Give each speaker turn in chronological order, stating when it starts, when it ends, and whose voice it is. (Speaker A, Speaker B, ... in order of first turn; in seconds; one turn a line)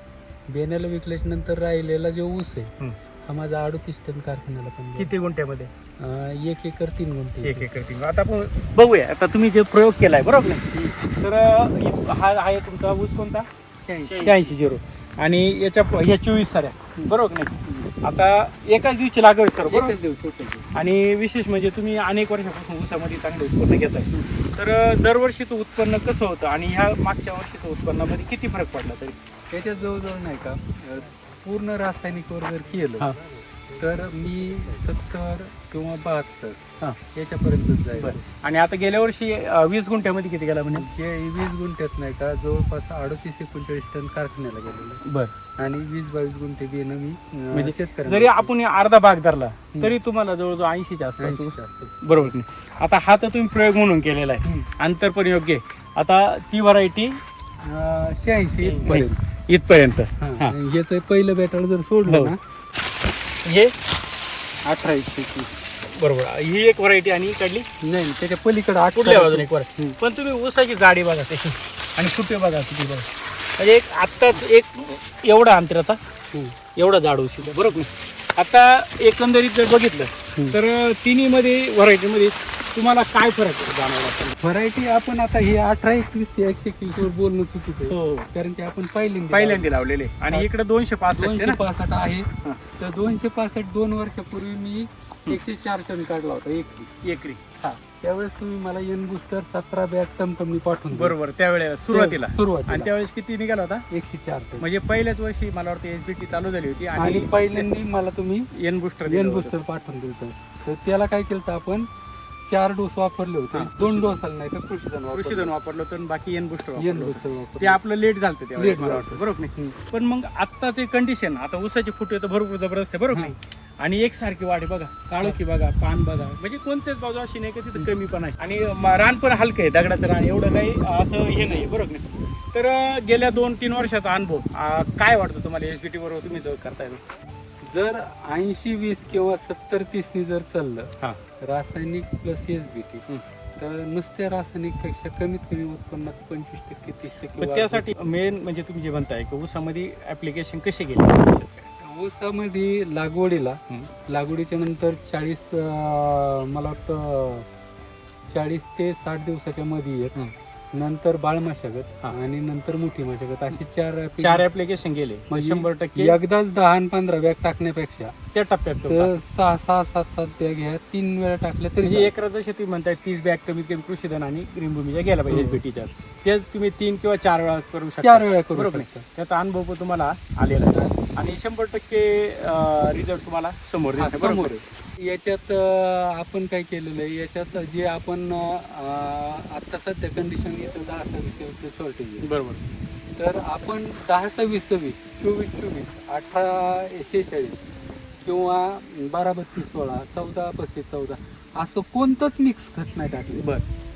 Speaker A: 0.5-5.1
Speaker B: 5.0-5.7
Speaker A: 6.0-7.7
Speaker B: 7.4-13.5
Speaker A: 10.7-11.0
Speaker A: 13.8-14.6
Speaker B: 14.1-20.0
Speaker A: 17.0-17.9
Speaker A: 19.6-20.7
Speaker B: 20.7-29.1
Speaker A: 29.5-33.1
Speaker A: 33.8-38.3
Speaker B: 38.0-40.9
Speaker A: 40.7-45.0
Speaker B: 45.0-45.3
Speaker A: 45.6-48.5
Speaker B: 47.5-57.2
Speaker A: 51.2-52.3
Speaker A: 57.6-59.2
Speaker B: 58.6-60.5
Speaker A: 60.2-62.4
Speaker B: 62.1-62.3
Speaker B: 63.4-63.7
Speaker A: 64.7-65.5
Speaker B: 65.8-67.7
Speaker A: 67.8-70.0
Speaker B: 68.9-76.0
Speaker B: 76.8-84.3
Speaker A: 84.4-89.7
Speaker B: 87.9-88.3
Speaker B: 89.3-91.6
Speaker A: 91.1-96.9
Speaker B: 97.0-97.4
Speaker A: 97.6-101.2
Speaker B: 100.9-103.8
Speaker A: 101.9-102.9
Speaker A: 103.9-104.7
Speaker B: 104.6-107.7
Speaker A: 107.0-108.5
Speaker B: 108.5-109.5
Speaker A: 109.0-111.9
Speaker A: 112.5-115.5
Speaker B: 113.5-114.2
Speaker B: 115.1-137.0
Speaker A: 116.8-117.8
Speaker A: 118.5-119.8
Speaker A: 137.6-143.1
Speaker A: 143.6-147.9
Speaker B: 147.4-151.7
Speaker A: 151.8-157.4
Speaker A: 158.3-160.1
Speaker A: 160.7-164.4
Speaker B: 164.2-166.2
Speaker A: 165.3-168.1
Speaker B: 168.3-169.1
Speaker A: 168.8-172.1
Speaker B: 171.8-184.5
Speaker A: 175.3-175.6
Speaker A: 178.0-179.1
Speaker A: 180.7-181.0
Speaker A: 184.0-192.3
Speaker B: 192.2-192.6
Speaker A: 193.2-197.7
Speaker A: 198.2-203.5
Speaker B: 203.4-203.6